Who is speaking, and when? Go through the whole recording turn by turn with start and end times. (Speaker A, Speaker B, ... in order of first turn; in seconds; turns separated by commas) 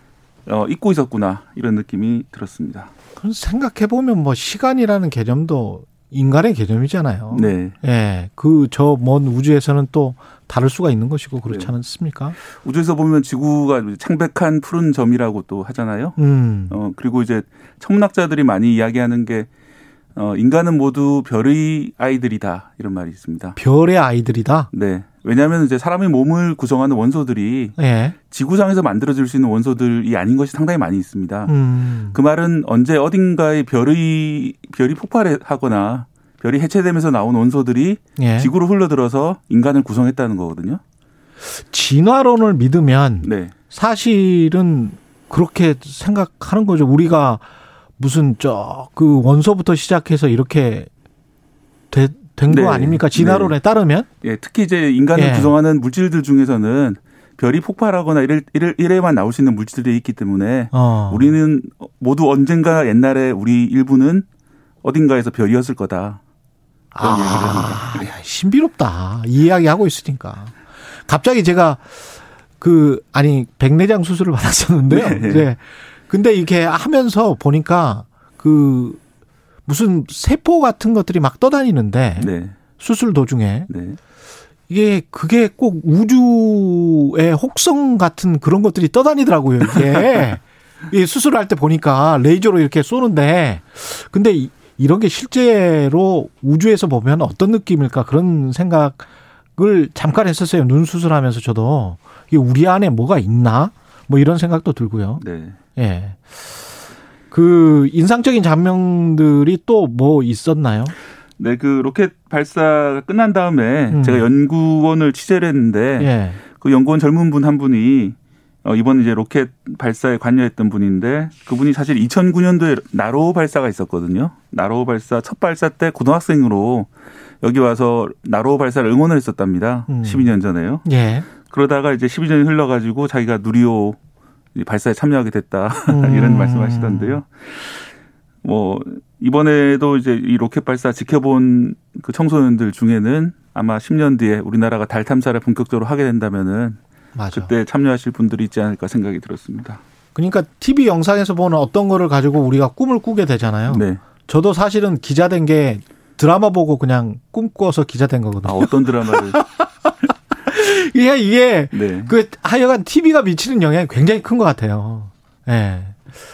Speaker A: 0.5-2.9, Speaker B: 3.2-12.4, Speaker A: 7.3-7.8, Speaker A: 11.5-11.7, Speaker A: 12.6-16.2, Speaker B: 16.2-16.8, Speaker A: 16.7-19.5, Speaker A: 20.2-23.6, Speaker B: 23.6-24.7, Speaker A: 24.7-27.8, Speaker B: 27.8-28.2, Speaker A: 28.3-31.6, Speaker B: 31.5-32.2, Speaker A: 32.1-40.8, Speaker B: 38.2-38.5, Speaker B: 41.5-47.5, Speaker A: 43.2-43.5, Speaker B: 48.0-50.9, Speaker B: 51.9-54.1, Speaker A: 52.5-53.6, Speaker A: 54.2-64.2, Speaker B: 55.1-55.5, Speaker B: 60.7-61.4, Speaker A: 64.8-66.2, Speaker B: 66.9-72.1, Speaker A: 67.0-68.1, Speaker B: 72.6-79.0, Speaker A: 74.9-75.5, Speaker B: 79.7-83.7, Speaker A: 82.2-82.6, Speaker A: 83.7-84.0, Speaker B: 84.7-105.2, Speaker A: 105.2-105.6, Speaker B: 105.8-106.7, Speaker B: 107.3-111.0, Speaker A: 111.4-126.9, Speaker B: 113.9-114.3, Speaker B: 116.0-116.4, Speaker A: 127.4-130.9, Speaker B: 129.9-130.3, Speaker B: 130.8-131.3, Speaker A: 131.4-134.0, Speaker A: 134.6-137.8, Speaker B: 135.9-137.2, Speaker A: 138.4-146.8, Speaker B: 147.2-147.5, Speaker A: 147.3-149.8, Speaker B: 150.2-166.0, Speaker A: 153.7-154.0, Speaker A: 158.4-159.4, Speaker A: 161.7-162.2